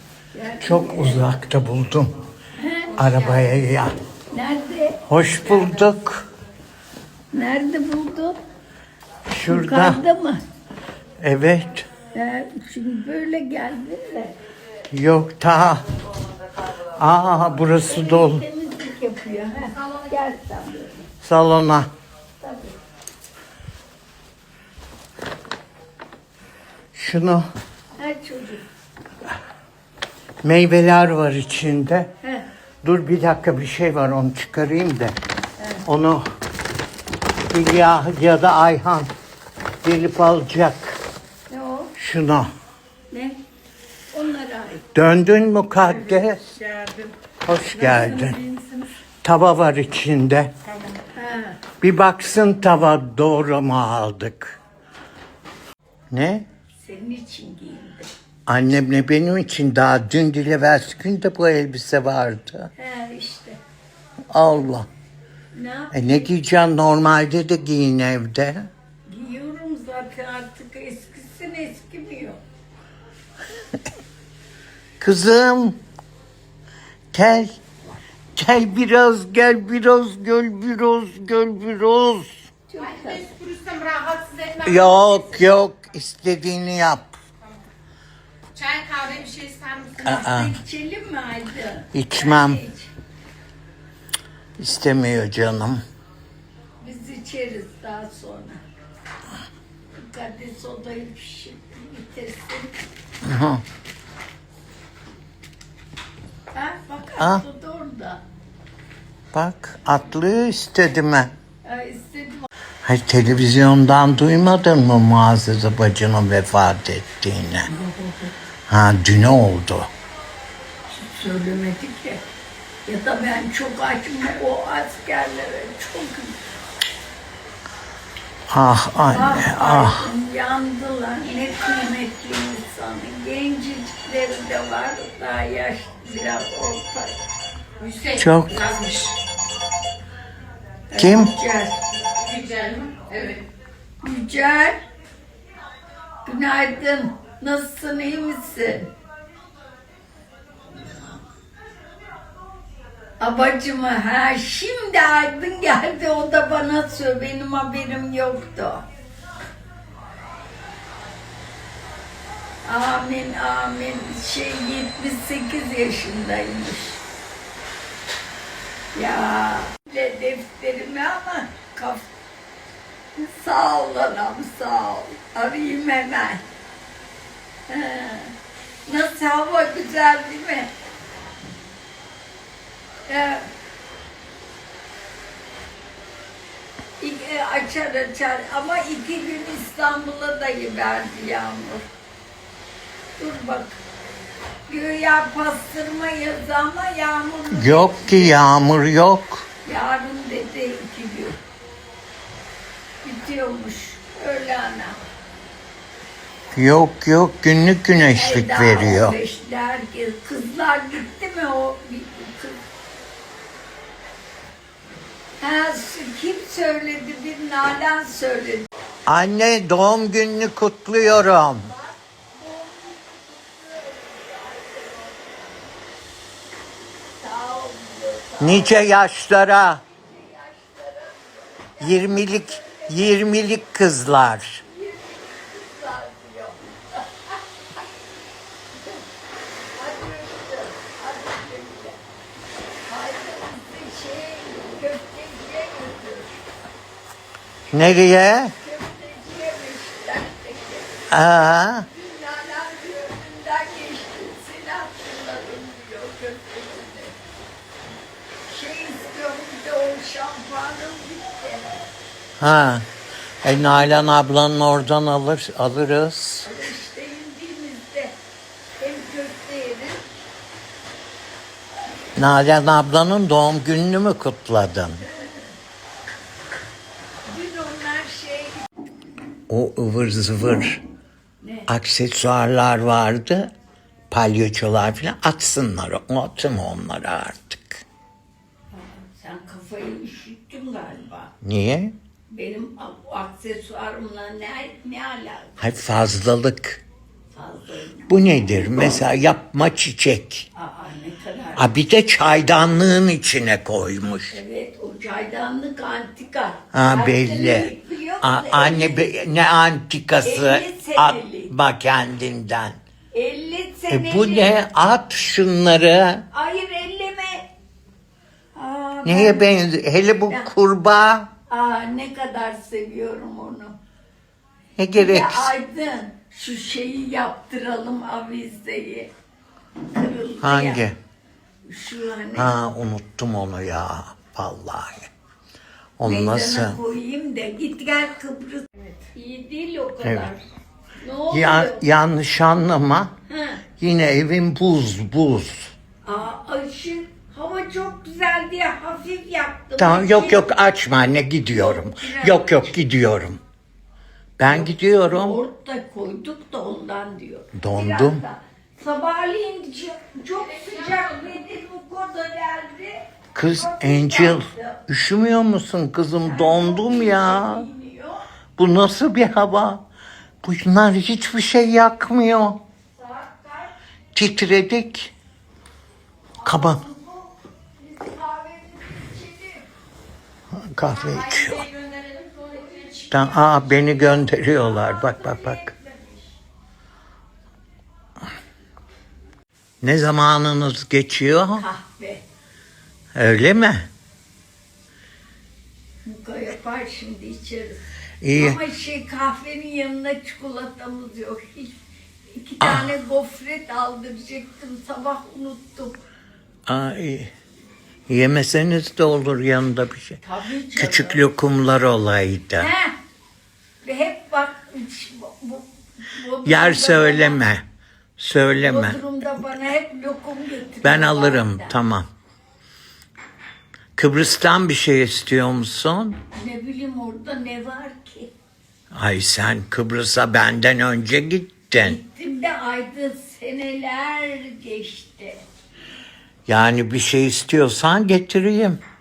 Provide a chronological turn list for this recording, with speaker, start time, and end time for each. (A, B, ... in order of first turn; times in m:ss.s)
0:00.3-0:01.2 A
0:00.6-0:02.1 B
0:02.6-0:03.5 A
0:03.0-0:03.9 B
0:04.3-0:05.0 A
0:05.1-0:06.2 B
0:07.3-0:08.4 A
0:09.3-0:10.0 B
0:09.5-0:10.4 A
0:11.2-0:11.8 B
0:12.1-0:14.3 A
0:14.9-0:15.8 B
0:16.9-0:18.4 B
0:17.8-0:21.0 A
0:21.2-0:21.9 B
0:22.4-0:22.7 A
0:26.9-0:27.5 B
0:28.0-0:28.6 A
0:30.4-0:32.1 B
0:32.2-0:32.5 A
0:32.8-0:35.1 B
0:35.6-0:35.8 A
0:35.8-0:36.2 B
0:37.5-0:39.1 B
0:39.8-0:41.0 B
0:41.5-0:41.9 A
0:42.0-0:42.5 B
0:43.1-0:43.4 A
0:44.1-0:44.8 A
0:44.9-0:46.5 B
0:47.4-0:48.4 B
0:47.8-0:48.9 A
0:49.2-0:50.5 B
0:51.1-0:51.6 A
0:51.8-0:54.6 B
0:56.1-0:56.5 B
0:56.8-0:58.1 A
0:58.5-1:02.7 B
1:02.8-1:03.6 A
1:04.3-1:04.9 B
1:05.5-1:06.3 A
1:05.9-1:08.7 B
1:09.1-1:12.4 A
1:15.0-1:15.8 B
1:17.1-1:17.5 B
1:18.4-1:22.4 B
1:22.7-1:23.3 A
1:23.0-1:24.6 C
1:24.6-1:27.2 B
1:28.5-1:30.0 C
1:30.0-1:32.9 A
1:30.0-1:30.6 B
1:31.9-1:32.6 B
1:34.6-1:35.8 B
1:36.8-1:38.6 A
1:40.0-1:42.8 A
1:43.2-1:43.6 B
1:46.5-1:48.2 A
1:49.3-1:51.3 B
1:51.6-1:52.5 A
1:52.8-1:57.7 B
1:57.7-1:58.3 A
1:58.7-1:59.9 B
2:00.9-2:02.2 A
2:02.8-2:06.4 A
2:08.5-2:10.1 B
2:09.1-2:17.2 A
2:17.8-2:18.1 C
2:18.1-2:18.8 B
2:18.7-2:19.1 C
2:20.9-2:21.8 A
2:21.0-2:21.3 B
2:22.2-2:23.4 C
2:24.0-2:24.8 A
2:26.2-2:28.9 A
2:33.2-2:38.8 A
2:42.6-2:47.0 A
2:48.9-2:52.1 A
2:53.1-2:56.4 A
2:57.7-2:58.3 A
2:58.8-3:00.7 A
3:03.1-3:03.5 A
3:07.0-3:11.8 A
3:13.2-3:13.8 A
3:14.7-3:18.3 A
3:17.5-3:19.4 B
3:19.6-3:21.4 A
3:23.0-3:25.0 A
3:26.5-3:29.2 B
3:28.1-3:32.6 A
3:35.4-3:38.7 A
3:39.0-3:41.7 B
3:41.6-3:45.5 A
3:47.2-3:48.9 A
3:48.4-3:49.8 B
3:49.8-3:53.1 A
3:51.8-3:54.6 B
3:54.6-3:57.8 A
3:59.7-4:02.0 A
4:02.8-4:06.3 A
4:07.7-4:08.5 B
4:08.6-4:11.0 A
4:11.1-4:11.9 B
4:11.8-4:17.1 A
4:18.5-4:21.8 A
4:22.4-4:22.8 B
4:23.4-4:26.5 B
4:26.4-4:28.1 A
4:28.8-4:30.0 A
4:32.2-4:35.0 B
4:35.0-4:35.5 A
4:37.3-4:38.7 A
4:39.5-4:40.8 B
4:41.4-4:41.7 A
4:41.7-4:43.5 B
4:44.1-4:47.8 B
4:48.7-4:51.3 A
4:51.4-4:51.9 B
4:52.3-4:55.6 A
4:55.6-4:56.8 B
4:57.3-4:58.1 A
4:58.1-5:00.5 B
5:00.5-5:01.7 A
5:01.6-5:04.3 B
5:04.3-5:09.1 A
5:06.7-5:12.8 B
5:10.2-5:11.5 A
5:13.1-5:14.5 A
5:13.9-5:16.2 B
5:16.3-5:17.4 A
5:18.5-5:19.4 A
5:19.0-5:21.3 B
5:21.5-5:23.8 A
5:24.8-5:25.5 B
5:24.9-5:29.1 A
5:29.9-5:30.8 A
5:30.4-5:31.0 B
5:31.6-5:32.5 A
5:32.3-5:35.1 B
5:36.0-5:36.8 B
5:36.0-5:40.4 A
5:40.0-5:40.3 B
5:41.0-5:41.8 A
5:41.3-5:43.1 B
5:43.3-5:43.6 A
5:43.8-5:45.7 B
5:46.0-5:50.5 A
5:49.8-5:53.4 B
5:51.5-5:52.7 A
5:54.4-5:55.4 B
5:54.4-6:04.8 A
5:57.5-5:58.2 B
6:03.3-6:07.6 B
6:06.2-6:08.2 A
6:08.6-6:09.8 B
6:10.4-6:12.6 B
6:12.9-6:13.7 A
6:14.1-6:15.1 B
6:16.4-6:19.7 A
6:16.4-6:16.8 B
6:20.5-6:21.7 B
6:22.4-6:23.1 A
6:23.1-6:25.7 B
6:24.3-6:26.2 A
6:29.8-6:31.6 B
6:31.6-6:32.2 A
6:33.1-6:33.9 B
6:36.0-6:37.8 A
6:38.2-6:38.6 B
6:38.3-6:41.7 A
6:42.3-6:46.0 A
6:42.6-6:42.9 B
6:46.7-6:47.3 B
6:48.1-6:50.2 B
6:50.2-6:51.2 A
6:50.7-6:52.7 B
6:52.6-6:53.0 A
6:53.8-6:57.4 A
6:56.4-6:57.6 B
6:58.2-6:59.0 B
6:58.6-7:01.8 A
7:00.8-7:02.0 B
7:04.0-7:06.2 B
7:06.3-7:08.3 A
7:08.9-7:12.0 B
7:11.8-7:15.4 A
7:16.4-7:18.8 B